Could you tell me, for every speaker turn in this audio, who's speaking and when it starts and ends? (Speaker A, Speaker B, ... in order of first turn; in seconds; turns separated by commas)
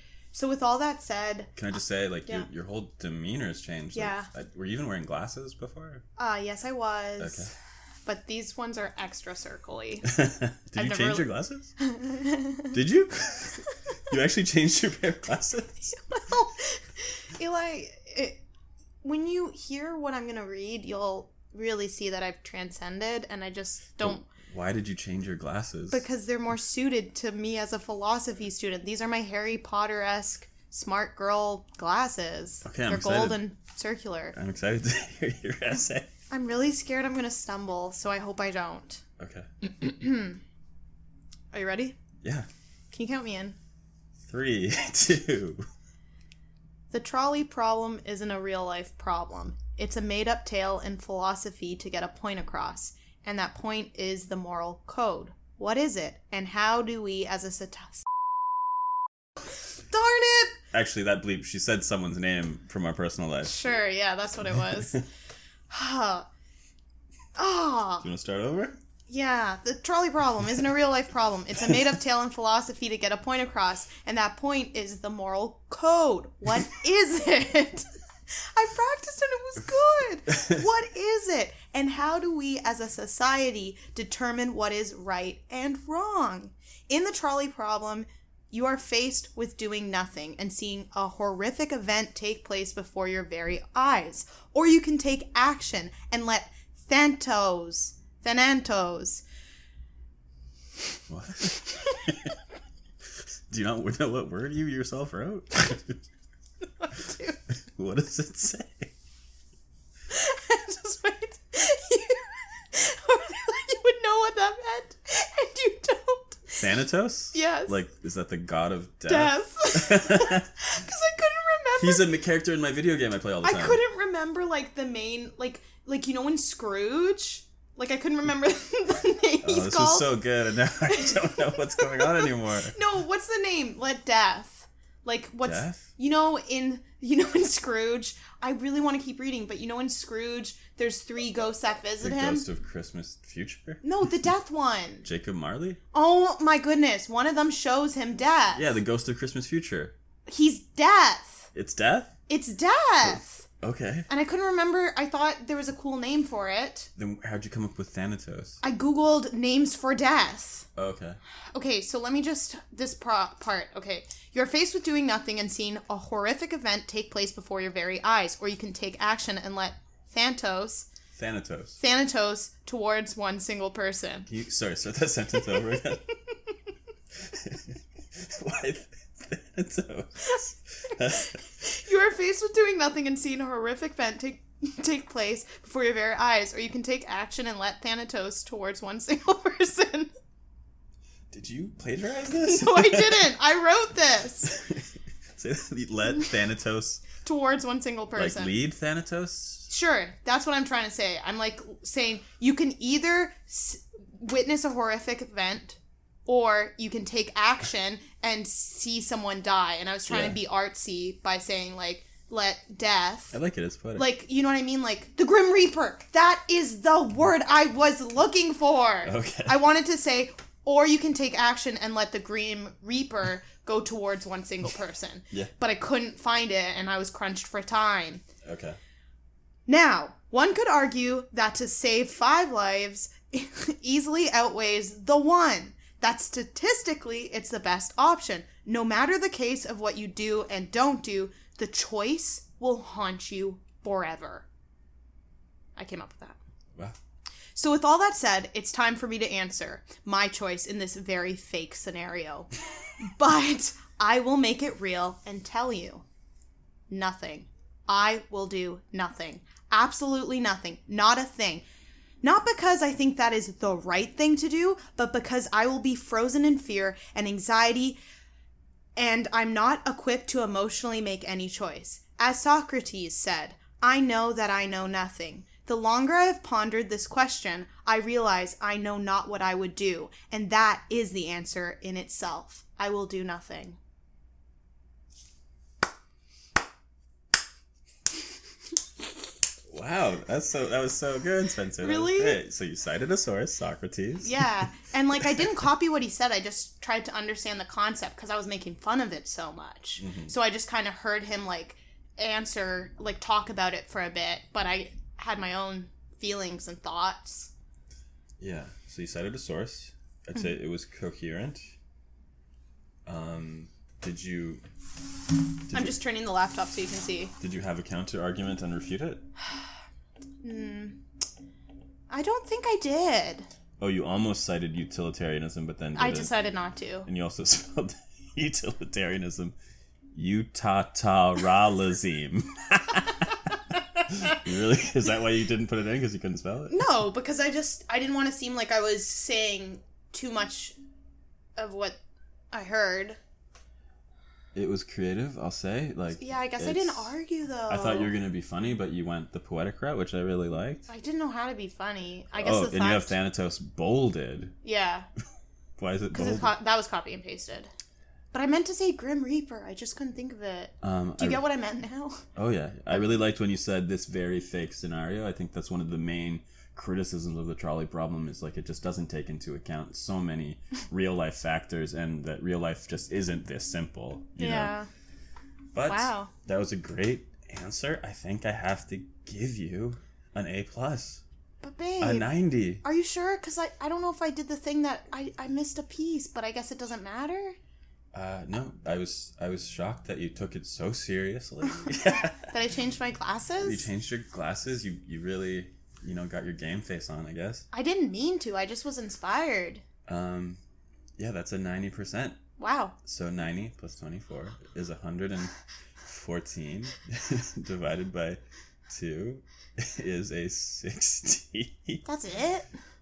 Speaker A: 0.3-1.5, Speaker B: 1.6-6.0, Speaker A: 3.9-4.3, Speaker A: 6.2-7.5, Speaker B: 7.2-7.5, Speaker A: 8.1-10.2, Speaker B: 10.1-11.7, Speaker A: 10.8-11.3, Speaker A: 11.8-12.8, Speaker B: 12.7-15.9, Speaker A: 15.9-18.4, Speaker A: 19.0-24.2, Speaker B: 24.0-26.0, Speaker A: 25.9-34.4, Speaker B: 32.6-33.4, Speaker B: 34.4-36.1, Speaker A: 36.3-39.0, Speaker B: 39.2-39.5, Speaker A: 39.6-40.4, Speaker A: 41.5-42.0, Speaker B: 42.2-42.5, Speaker A: 42.9-43.6, Speaker B: 44.2-45.6, Speaker A: 46.9-58.1, Speaker A: 59.9-60.6, Speaker B: 60.7-63.7, Speaker A: 63.4-65.0, Speaker B: 64.5-65.0, Speaker A: 65.7-66.3, Speaker A: 67.4-68.1, Speaker B: 68.0-68.8, Speaker A: 69.1-99.2, Speaker B: 101.1-102.4, Speaker B: 103.5-106.0, Speaker A: 106.8-107.4, Speaker B: 107.7-108.9, Speaker A: 110.1-116.7, Speaker B: 116.6-120.5, Speaker A: 117.3-117.8, Speaker A: 119.1-122.1, Speaker B: 121.8-123.8, Speaker A: 123.4-130.2, Speaker B: 129.4-132.8, Speaker A: 130.9-142.5, Speaker B: 135.4-135.9, Speaker B: 142.0-143.8, Speaker A: 143.8-145.1, Speaker B: 145.0-145.8, Speaker A: 145.9-148.8, Speaker B: 148.5-149.9, Speaker A: 150.3-151.5, Speaker B: 151.5-152.1, Speaker A: 152.3-153.5, Speaker B: 153.0-154.1, Speaker A: 154.1-156.9, Speaker B: 157.0-158.6, Speaker A: 158.6-160.7, Speaker B: 160.8-161.2, Speaker A: 161.5-170.9, Speaker B: 171.1-171.8, Speaker A: 171.8-174.3, Speaker B: 174.3-176.0, Speaker A: 175.4-176.4, Speaker B: 177.2-181.4, Speaker A: 180.9-190.1, Speaker B: 191.3-193.3, Speaker A: 192.3-194.6, Speaker B: 194.5-197.1, Speaker A: 197.2-198.5, Speaker B: 198.2-199.7, Speaker A: 199.7-213.4, Speaker B: 210.1-210.4, Speaker B: 213.3-214.1, Speaker A: 213.9-228.2, Speaker B: 219.0-219.6, Speaker B: 228.4-228.8, Speaker A: 229.7-244.5, Speaker A: 245.8-246.4, Speaker A: 247.6-256.0, Speaker A: 256.9-261.6, Speaker A: 262.2-268.0, Speaker A: 269.0-283.8, Speaker B: 289.7-294.4, Speaker A: 291.8-292.4, Speaker A: 294.2-307.5, Speaker B: 300.0-300.3, Speaker B: 308.4-311.6, Speaker B: 313.1-314.6, Speaker B: 315.7-316.0, Speaker A: 315.7-317.3, Speaker B: 317.4-319.2, Speaker A: 320.4-321.0, Speaker A: 322.1-323.5, Speaker B: 323.8-326.3, Speaker A: 326.0-327.1, Speaker B: 327.1-329.6, Speaker B: 330.1-333.4, Speaker B: 334.1-336.8, Speaker A: 336.7-340.8, Speaker A: 341.6-342.0, Speaker A: 342.5-343.2, Speaker B: 344.5-347.1, Speaker A: 346.2-348.1, Speaker B: 347.7-350.9, Speaker A: 350.9-353.2, Speaker B: 352.4-354.5, Speaker A: 354.6-355.1, Speaker B: 355.8-356.5, Speaker A: 356.1-357.7, Speaker A: 358.3-362.2, Speaker B: 360.8-361.4, Speaker B: 362.4-374.7, Speaker A: 374.4-374.9, Speaker B: 375.7-381.2, Speaker A: 375.9-376.3, Speaker A: 381.6-382.3, Speaker B: 382.0-382.8, Speaker A: 382.8-387.6, Speaker B: 388.1-392.5, Speaker A: 392.4-393.9, Speaker B: 393.6-397.7, Speaker A: 397.7-399.8, Speaker B: 400.1-400.6, Speaker B: 401.2-402.4, Speaker A: 402.6-402.9, Speaker B: 403.0-405.5, Speaker B: 406.1-412.0, Speaker A: 412.1-412.7